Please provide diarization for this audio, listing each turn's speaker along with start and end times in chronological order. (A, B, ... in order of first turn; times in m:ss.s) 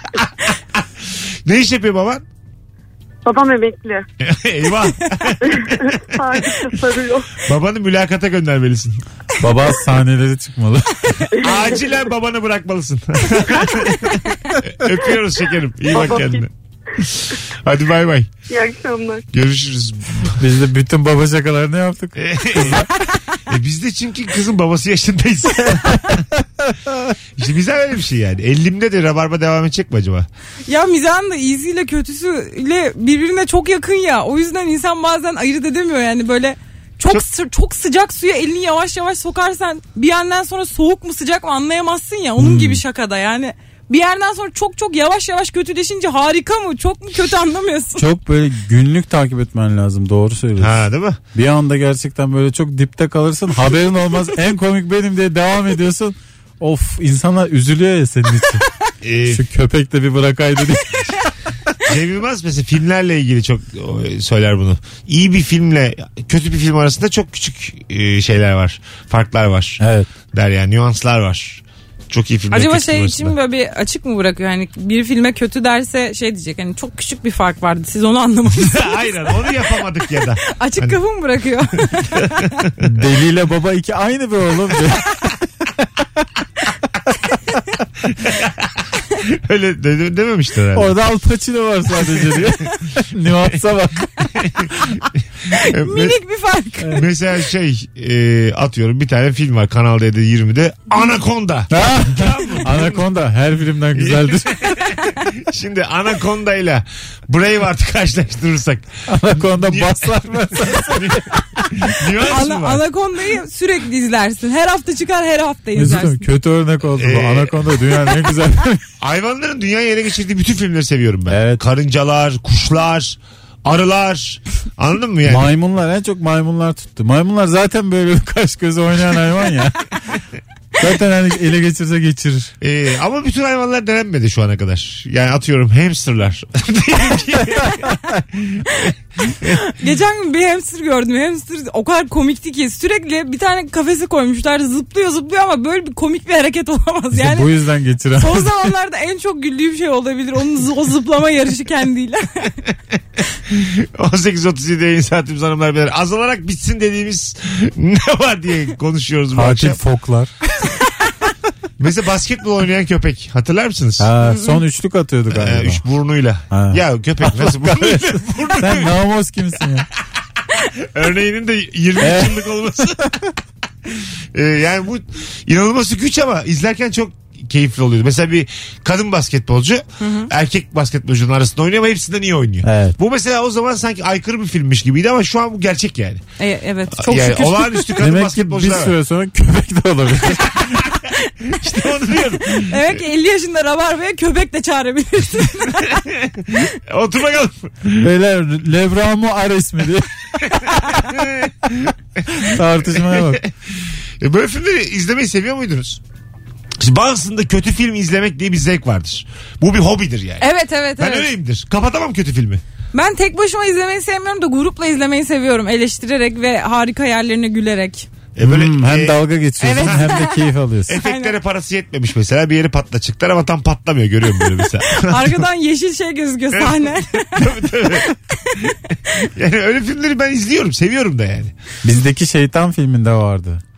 0:00.2-0:02.2 A
0:03.2-0:04.0 B
0:04.2-0:06.4 A
0:05.6-0:07.3 B
0:07.5-0:09.0 A
0:09.4-0:11.2 C
0:11.4-0:18.3 A
0:15.9-0:16.4 B
0:18.5-0:19.2 B
0:19.3-0:20.4 A
0:20.4-0:22.9 C
0:22.2-0:22.9 A
0:23.5-0:26.3 A
0:27.4-0:30.3 A
0:30.7-0:48.1 D
0:42.4-0:42.8 C
0:48.0-0:58.7 C
0:50.6-0:51.2 A
0:59.0-0:59.4 A
0:59.3-1:01.1 C
1:01.8-1:09.8 A
1:09.8-1:10.1 C
1:10.3-1:13.4 A
1:12.5-1:19.5 D
1:18.6-1:21.0 A
1:20.5-1:22.5 D
1:22.0-1:22.8 A
1:22.8-1:25.3 C
1:28.1-1:31.0 A
1:30.7-1:34.1 C
1:34.4-1:34.7 A
1:35.5-1:37.0 D
1:35.6-1:36.2 A
1:36.8-1:37.1 C
1:37.0-1:43.1 A
1:41.7-1:44.7 C
1:44.0-1:52.8 A
1:49.1-1:52.0 C
1:52.2-1:56.3 D
1:55.8-1:58.8 C
1:57.0-1:57.6 A
1:59.0-2:05.5 A
2:01.3-2:01.6 C
2:05.2-2:09.9 C
2:10.8-2:12.5 C
2:12.6-2:19.6 A
2:19.4-2:27.5 D
2:27.1-2:28.5 C
2:28.2-2:32.6 D
2:33.5-2:39.8 A
2:39.3-2:40.3 C
2:41.8-2:44.1 A
2:44.0-2:45.8 C
2:44.2-2:44.6 D
2:45.3-2:49.0 A
2:46.5-2:49.9 C
2:50.7-2:53.1 A
2:52.0-2:53.1 C
2:53.9-3:06.2 A
3:00.0-3:00.3 D
3:02.6-3:03.0 C
3:06.4-3:08.0 D
3:06.9-3:08.9 A
3:08.0-3:10.9 C
3:11.5-3:13.0 A
3:12.5-3:16.0 D
3:16.2-3:18.1 A
3:18.0-3:20.1 C
3:20.9-3:26.0 A
3:22.4-3:23.4 C
3:26.8-3:32.6 A
3:30.4-3:31.3 D
3:32.9-3:38.1 D
3:38.4-3:40.2 A
3:38.4-3:41.0 C
3:39.6-3:41.4 D
3:40.9-3:45.4 A
3:44.4-3:47.6 D
3:46.5-3:48.1 A
3:48.7-3:51.5 A
3:51.8-3:53.6 C